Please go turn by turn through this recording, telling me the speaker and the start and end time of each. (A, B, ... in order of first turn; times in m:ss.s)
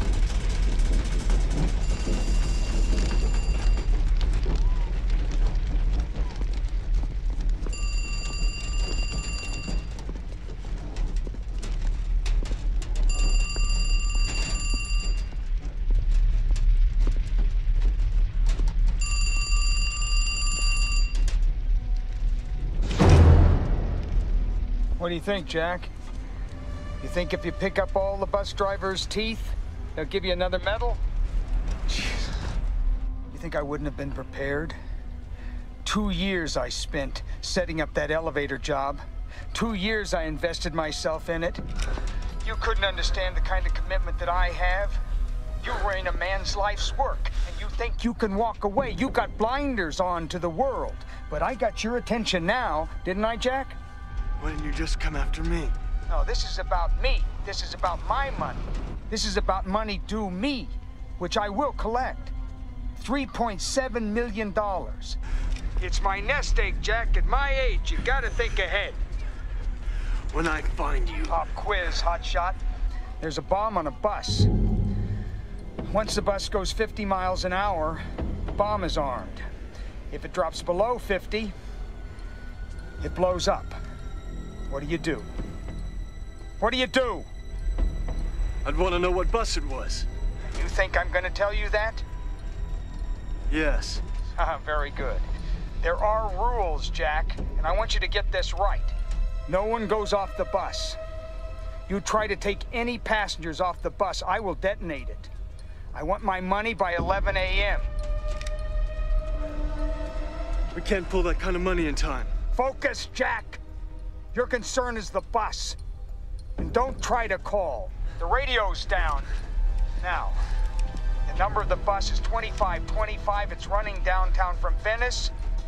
0:25.0-0:25.9 A
0:27.0-0:31.0 A
0:33.3-0:34.8 A
0:35.8-0:41.6 A
0:42.4-0:45.0 A
0:45.6-0:53.8 A
0:54.4-0:55.8 B
0:56.1-1:02.3 A
1:03.0-1:05.2 A
1:05.8-1:09.0 A
1:10.3-1:11.4 B
1:11.3-1:12.6 A
1:13.2-1:14.5 A
1:15.8-1:19.4 A
1:20.1-1:21.5 A
1:23.0-1:23.8 A
1:24.7-1:25.3 A
1:26.6-1:27.3 A
1:28.6-1:30.1 B
1:30.5-1:32.0 A
1:33.5-1:34.0 B
1:34.4-1:35.3 A
1:35.8-1:38.9 A
1:39.5-1:41.0 A
1:41.9-1:45.3 A
1:45.9-1:47.9 A
1:50.7-1:52.3 B
1:52.5-1:53.6 A
1:54.3-1:55.8 A
1:56.6-1:59.3 A
2:00.0-2:00.4 A
2:01.2-2:05.3 A